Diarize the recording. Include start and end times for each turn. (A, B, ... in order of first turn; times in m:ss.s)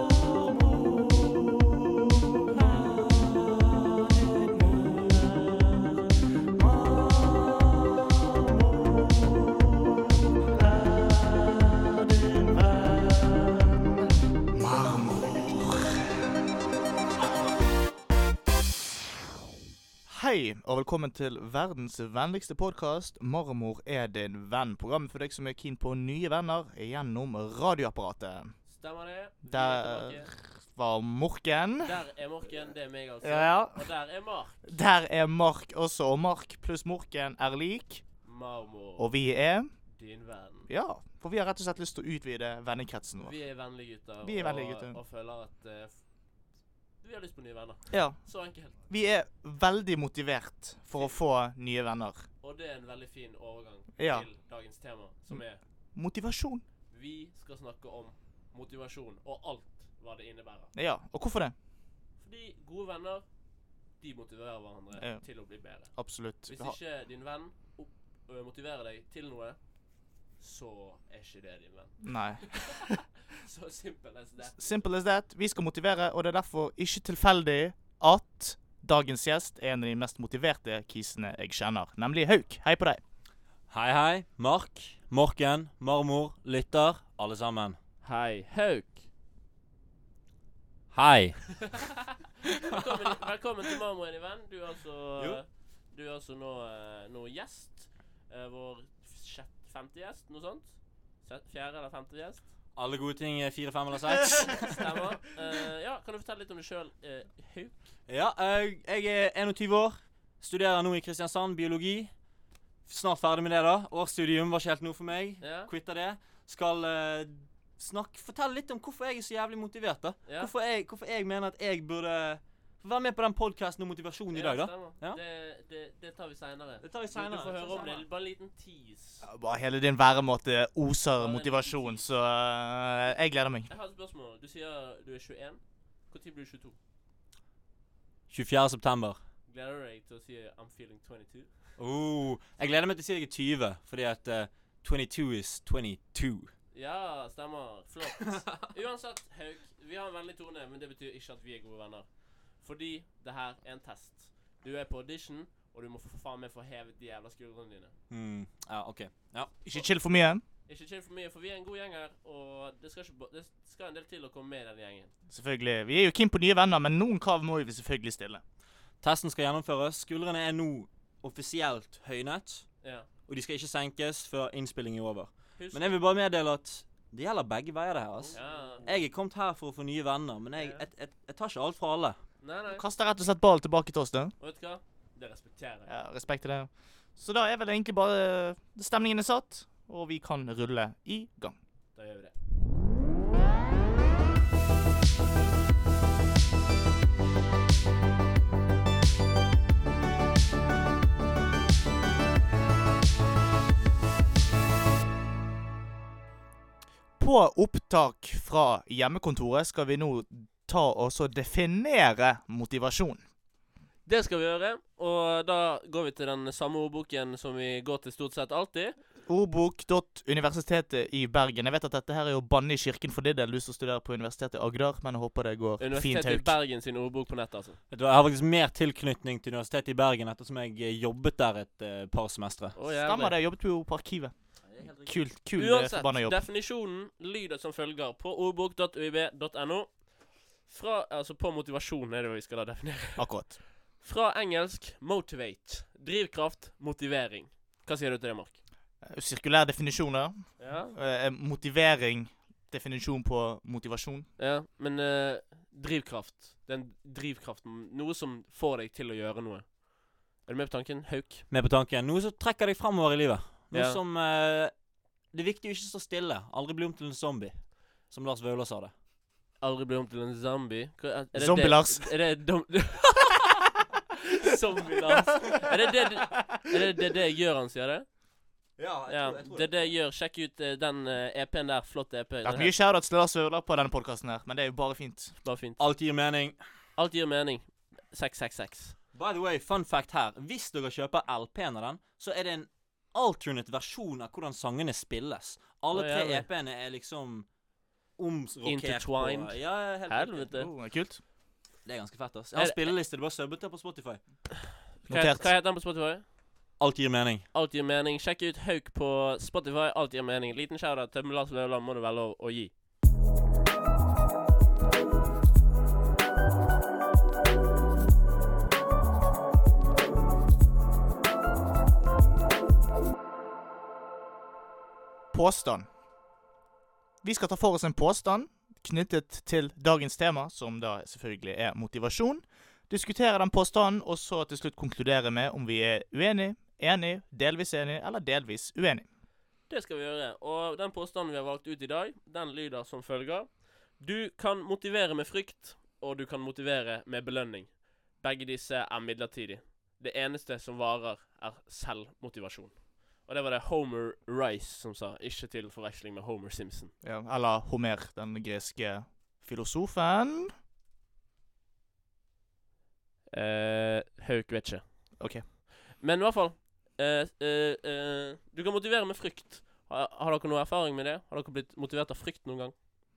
0:00.5-0:03.3 A
0:04.4-0:05.6 A
0:06.6-0:16.4 A
0:20.1-0:28.6 A
0:28.7-0:30.3 B
0:29.4-0:32.0 A
0:31.8-0:34.6 B
0:33.2-0:33.9 A
0:34.6-0:38.3 A
0:38.2-0:39.1 B
0:39.0-0:39.8 A
0:39.9-0:40.7 B
0:40.7-0:43.4 A
0:43.2-0:46.0 B
0:44.2-0:45.0 A
0:47.0-0:48.7 B
0:47.9-0:52.3 A
0:51.0-0:51.2 B
0:52.4-0:55.6 B
0:54.0-0:54.3 A
0:56.0-0:56.6 A
0:56.9-1:00.7 B
1:00.7-1:01.5 A
1:02.2-1:03.3 B
1:04.0-1:09.6 B
1:05.0-1:06.8 A
1:10.4-1:14.7 B
1:12.0-1:13.0 A
1:14.5-1:23.0 A
1:23.7-1:27.8 C
1:28.0-1:29.0 B
1:30.9-1:31.8 C
1:32.6-1:42.5 B
1:32.7-1:33.1 C
1:42.8-1:44.8 C
1:44.7-1:47.8 B
1:48.1-1:52.1 C
1:52.9-2:05.2 C
1:55.4-1:55.7 B
2:00.3-2:00.5 B
2:04.3-2:09.2 B
2:06.8-2:08.0 C
2:09.2-2:13.7 A
2:11.2-2:12.1 B
2:13.7-2:16.8 B
2:18.3-2:19.2 C
2:19.5-2:21.5 B
2:21.8-2:26.5 C
2:26.7-2:37.9 B
2:38.1-2:39.6 C
2:39.6-2:40.4 A
2:40.7-2:45.1 B
2:45.3-2:48.4 A
2:49.0-3:02.2 C
2:52.8-2:53.1 B
2:55.6-2:56.0 B
2:58.3-2:58.9 B
3:00.6-3:00.8 B
3:02.4-3:02.8 B
3:02.7-3:04.4 A
3:04.4-3:05.9 B
3:05.9-3:11.6 A
3:12.0-3:12.3 B
3:27.2-3:33.2 A
3:34.0-3:39.0 B
3:39.3-3:46.6 A
3:45.8-3:47.8 B
3:47.9-3:52.8 C
3:52.8-3:53.4 B
3:52.9-3:56.5 A
3:54.6-3:55.3 C
3:55.6-4:08.6 B
4:03.2-4:03.6 A
4:09.0-4:14.3 A
4:10.6-4:11.0 B
4:14.4-4:21.4 B
4:21.5-4:28.9 C
4:23.7-4:24.0 B
4:29.6-4:33.7 B
4:31.3-4:32.1 A
4:34.3-4:38.1 B
4:38.8-4:40.0 C
4:39.1-4:42.8 B
4:42.4-4:45.4 A
4:45.4-4:45.8 B
4:45.8-4:46.6 C
4:47.0-4:49.0 B
4:49.1-4:57.5 C
4:55.9-4:56.5 B
4:58.2-5:00.5 C
4:58.6-5:00.7 B
5:00.5-5:01.2 A
5:01.8-5:04.4 C
5:02.6-5:02.9 B
5:05.0-5:06.3 B
5:05.0-5:05.5 A
5:06.8-5:07.5 C
5:07.5-5:12.7 B
5:25.3-5:25.9 A
5:27.2-5:39.0 A
5:39.7-5:56.9 B
5:57.0-6:00.5 A
6:03.3-6:12.7 B
6:05.2-6:05.4 A